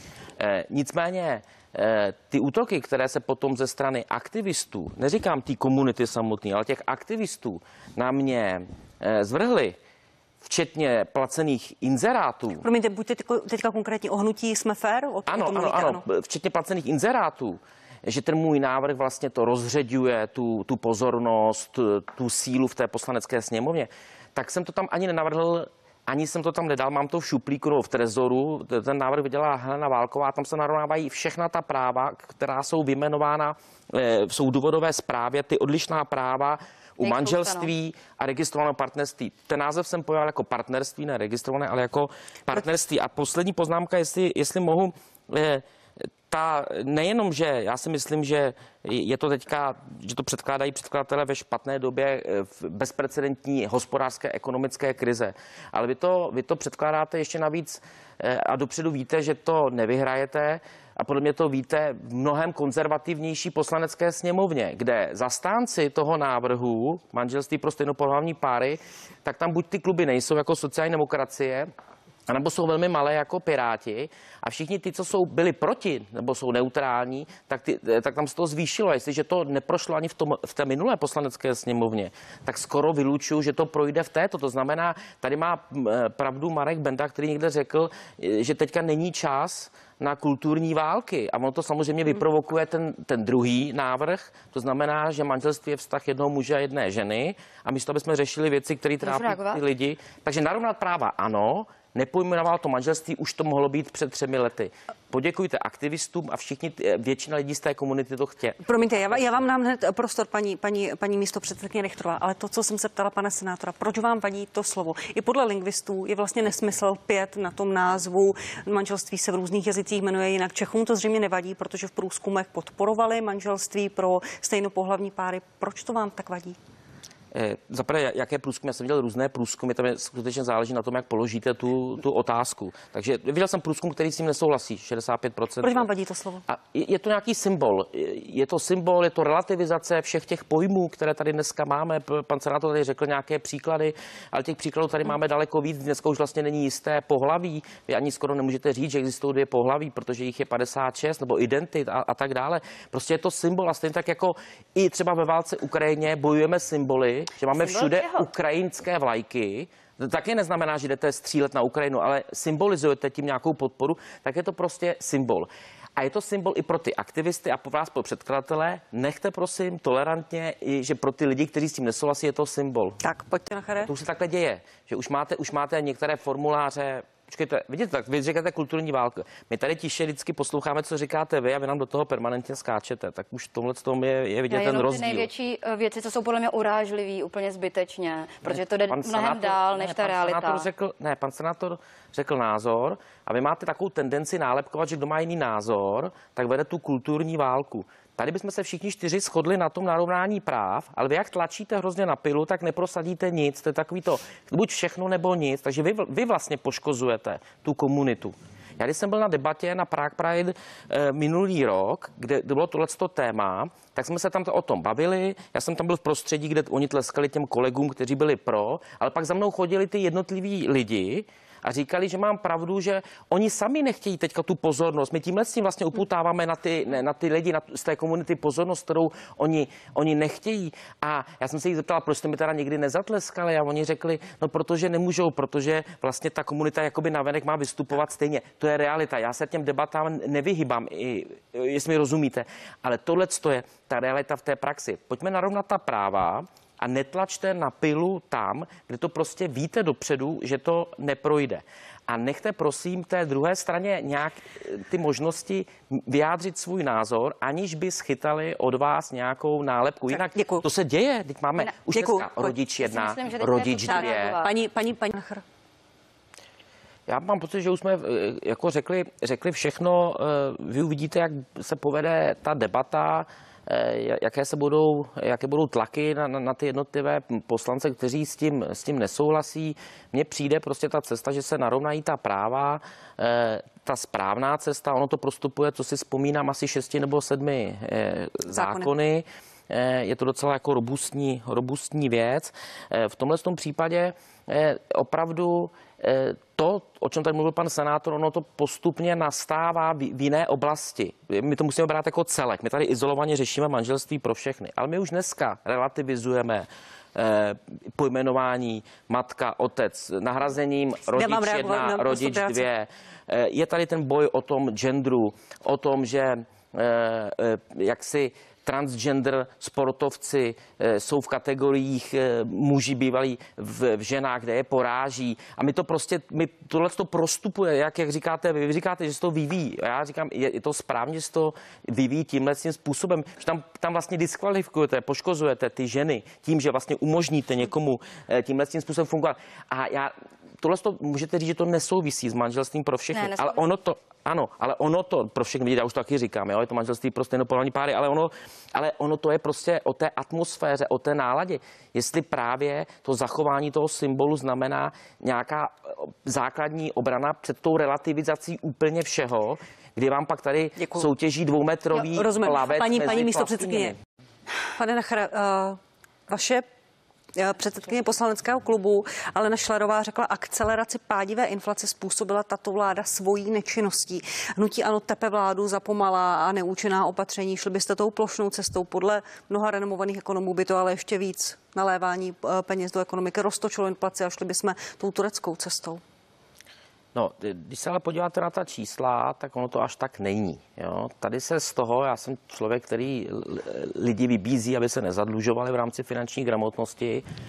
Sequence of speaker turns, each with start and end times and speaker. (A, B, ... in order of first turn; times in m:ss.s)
0:00.4-0:09.7 A
0:10.4-0:12.6 A
0:12.6-0:16.0 B
0:15.3-0:45.6 A
0:37.0-0:37.7 C
0:46.3-1:11.7 A
1:12.3-1:49.4 A
1:39.0-1:39.6 C
1:48.6-2:06.6 B
2:07.3-2:15.9 A
2:15.6-2:16.4 B
2:16.5-2:53.0 A
2:37.6-2:38.2 C
2:53.0-2:53.9 B
2:53.8-3:05.3 A
3:04.5-3:10.7 C
3:08.4-4:24.4 A
4:20.1-4:20.6 B
4:21.9-4:22.5 B
4:22.8-4:24.5 C
4:23.9-4:25.4 B
4:27.1-6:04.0 A
4:48.5-4:48.9 B
5:11.1-5:12.7 B
5:43.1-5:43.6 C
6:00.8-6:01.1 B
6:01.9-6:03.9 B
6:04.7-6:06.6 B
6:07.3-6:26.0 B
6:27.1-6:37.2 A